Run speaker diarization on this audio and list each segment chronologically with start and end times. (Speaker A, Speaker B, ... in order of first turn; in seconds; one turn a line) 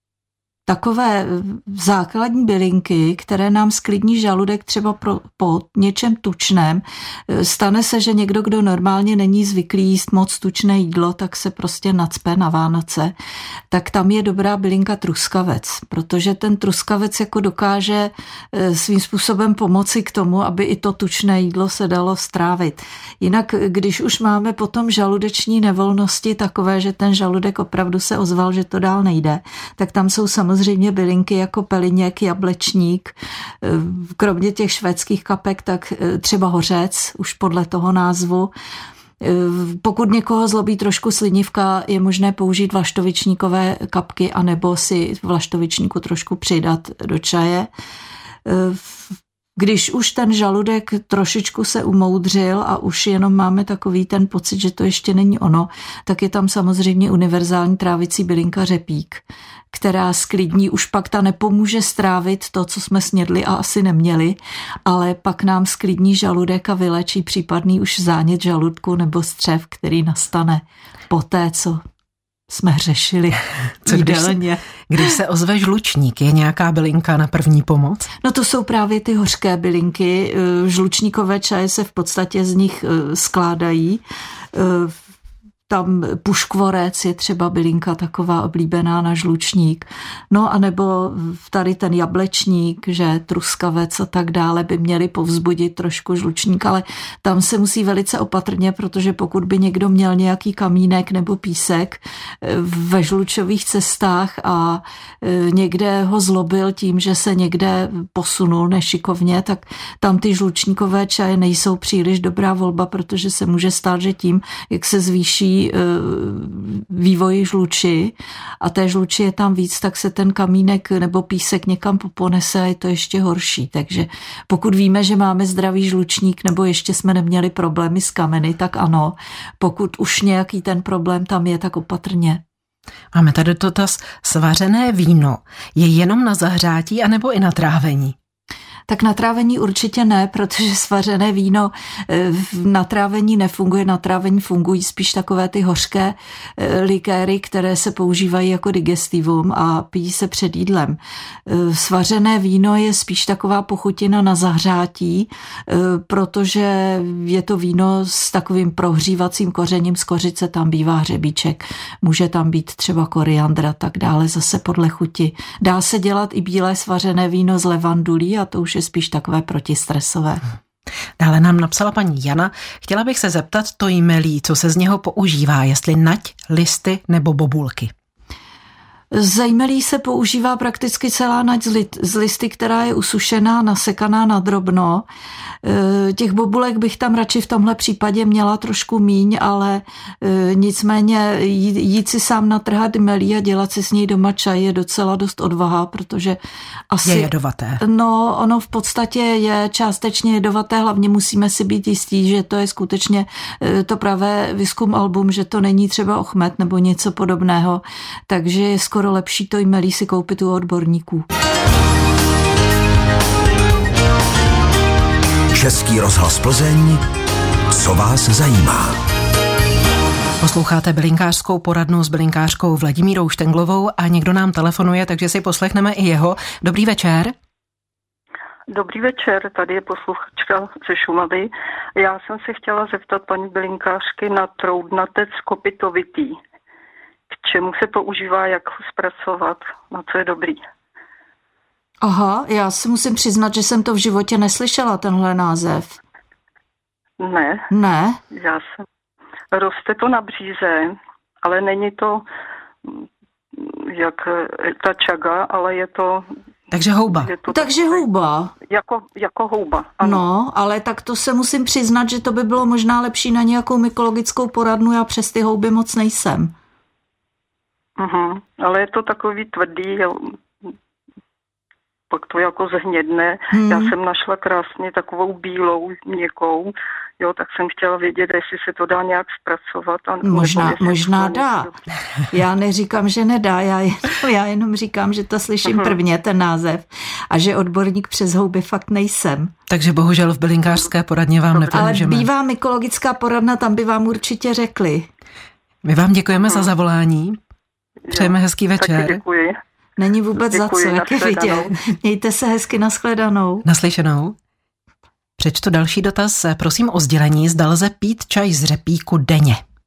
Speaker A: 0.7-13.1
Speaker A: 13.7-38.5
Speaker A: 39.2-47.7
Speaker A: 48.4-71.8
Speaker A: 72.5-75.1
Speaker B: 73.8-74.4
Speaker B: 74.9-78.1
Speaker A: 78.2-85.0
Speaker A: 85.7-132.4
Speaker B: 133.1-138.2
Speaker A: 138.9-170.4
Speaker B: 171.2-177.9
Speaker A: 179.1-185.0
Speaker A: 185.6-196.4
Speaker A: 196.9-197.3
Speaker B: 197.0-197.8
Speaker A: 197.8-211.2
Speaker C: 215.5-217.0
Speaker C: 217.7-219.0
Speaker B: 220.4-227.3
Speaker D: 228.7-236.4
Speaker D: 237.3-240.6
Speaker A: 242.0-246.0
Speaker D: 247.2-247.7
Speaker A: 247.7-248.2
Speaker D: 248.3-248.8
Speaker D: 249.5-252.2
Speaker D: 252.8-256.3
Speaker B: 256.7-257.3
Speaker D: 257.1-258.0
Speaker A: 257.5-258.5
Speaker D: 258.7-260.2
Speaker A: 260.0-266.5
Speaker D: 268.0-270.7
Speaker D: 272.1-281.8
Speaker A: 273.5-273.9
Speaker A: 280.2-281.7
Speaker A: 282.3-289.5
Speaker D: 285.6-285.9
Speaker B: 289.7-292.3
Speaker A: 291.5-295.1
Speaker B: 295.8-297.4
Speaker D: 298.0-299.6
Speaker B: 298.1-299.2
Speaker A: 300.0-303.6
Speaker D: 300.5-301.7
Speaker B: 303.6-304.4
Speaker B: 305.4-309.6